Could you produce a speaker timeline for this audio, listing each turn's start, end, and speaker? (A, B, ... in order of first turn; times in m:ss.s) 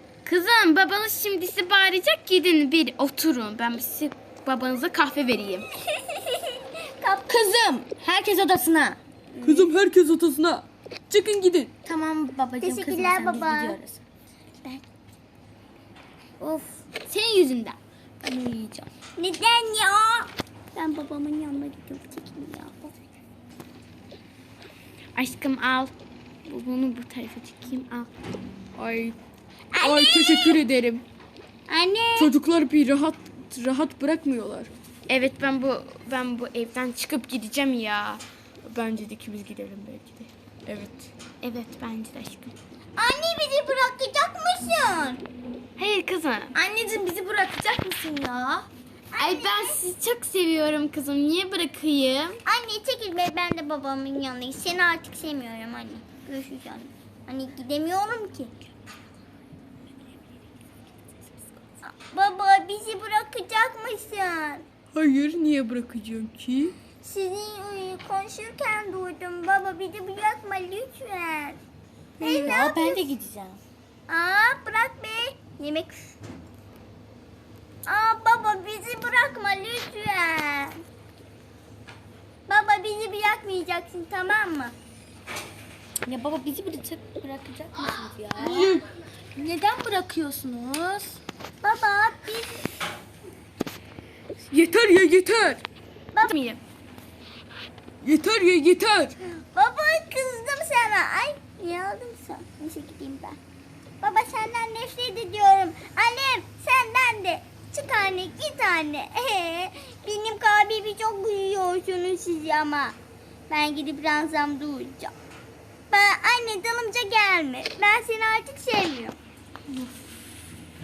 0:00.2-0:05.7 A
0:05.9-0:07.3 B
0:07.3-0:09.0 C
0:09.4-0:09.7 B
0:09.4-0:11.7 D
0:11.8-0:14.0 C
0:12.6-0:13.8 B
0:16.4-0:16.8 B
0:17.1-0:17.8 A
0:18.2-0:18.9 C
0:19.2-0:23.0 B
0:25.2-0:25.9 A
0:26.5-0:28.1 A
0:28.8-0:29.2 D
0:29.7-0:30.6 B
0:29.8-0:31.0 D
0:31.7-0:32.3 B
0:32.2-0:34.7 D
0:35.1-0:40.3 A
0:40.7-0:41.1 D
0:41.4-0:42.6 A
0:43.0-0:45.2 B
0:45.8-0:46.5 A
0:46.5-0:48.7 C
0:49.1-0:49.8 B
0:49.2-0:52.4 A
0:52.5-0:58.5 B
1:01.8-1:04.6 B
1:04.9-1:06.8 D
1:07.0-1:11.6 B
1:12.2-1:13.0 B
1:12.2-1:13.6 C
1:14.1-1:16.1 B
1:17.9-1:20.8 B
1:22.5-1:24.8 B
1:26.1-1:28.8 C
1:28.4-1:28.8 D
1:29.3-1:31.2 C
1:31.6-1:32.6 B
1:34.5-1:35.6 D
1:36.2-1:36.6 A
1:38.0-1:39.1 D
1:39.4-1:43.4 B
1:44.0-1:53.0 B
1:53.5-1:55.1 B
1:55.9-1:59.2 B